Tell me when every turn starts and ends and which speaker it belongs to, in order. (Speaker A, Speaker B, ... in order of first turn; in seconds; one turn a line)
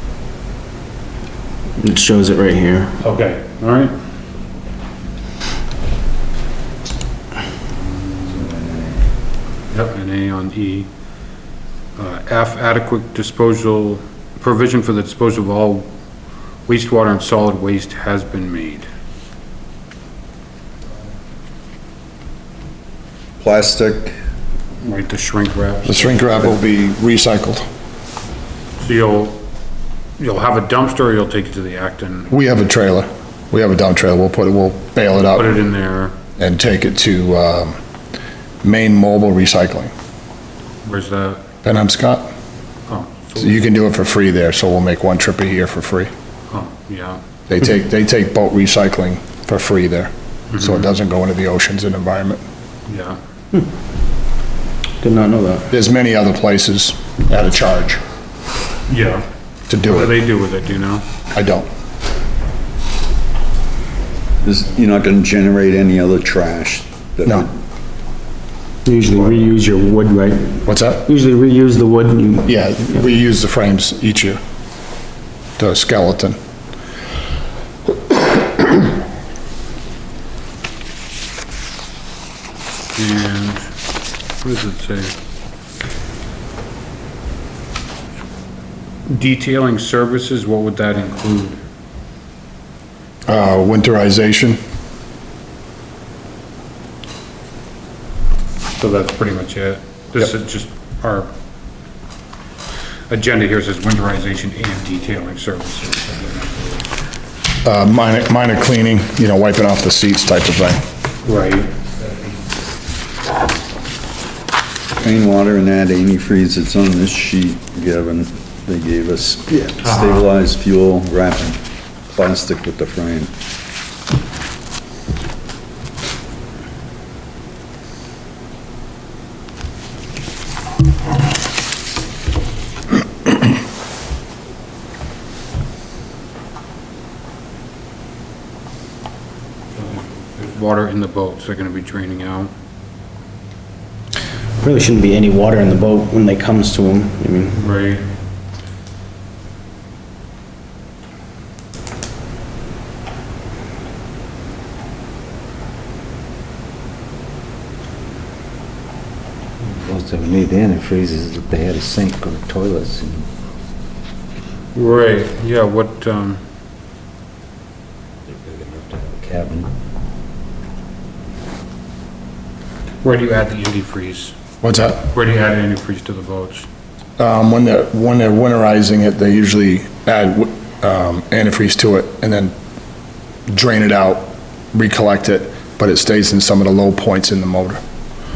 Speaker A: 1.8-2.9
Speaker B: 3.0-3.9
Speaker B: 8.0-8.7
Speaker B: 9.7-10.9
Speaker B: 11.9-15.9
Speaker B: 16.7-18.9
Speaker C: 23.4-24.1
Speaker B: 24.8-26.6
Speaker D: 25.8-27.6
Speaker B: 28.8-29.4
Speaker B: 30.2-32.3
Speaker D: 32.3-35.6
Speaker B: 35.3-36.1
Speaker D: 36.4-37.8
Speaker D: 38.6-39.9
Speaker B: 40.8-41.4
Speaker D: 41.6-42.3
Speaker B: 42.9-43.6
Speaker D: 43.3-46.1
Speaker B: 46.5-47.2
Speaker D: 47.5-52.4
Speaker B: 50.5-50.9
Speaker B: 52.9-53.2
Speaker A: 55.0-55.7
Speaker D: 55.7-58.0
Speaker B: 58.9-59.2
Speaker D: 59.7-60.2
Speaker B: 59.8-61.0
Speaker D: 61.3-61.7
Speaker C: 64.4-67.5
Speaker A: 68.8-72.5
Speaker D: 70.7-71.1
Speaker D: 72.5-74.4
Speaker D: 75.6-76.4
Speaker B: 83.0-83.7
Speaker B: 84.4-85.1
Speaker B: 89.1-91.6
Speaker D: 93.3-94.6
Speaker B: 98.8-101.3
Speaker B: 103.1-106.8
Speaker D: 107.6-110.8
Speaker B: 111.2-111.7
Speaker C: 115.0-123.3
Speaker B: 119.8-120.3
Speaker B: 139.7-142.5
Speaker A: 144.6-147.6
Speaker B: 147.5-148.0
Speaker E: 159.6-163.3
Speaker B: 164.7-166.4
Speaker E: 168.3-169.7
Speaker B: 173.0-174.3
Speaker D: 174.6-175.1
Speaker B: 175.1-176.7
Speaker D: 177.2-182.5
Speaker D: 183.5-187.8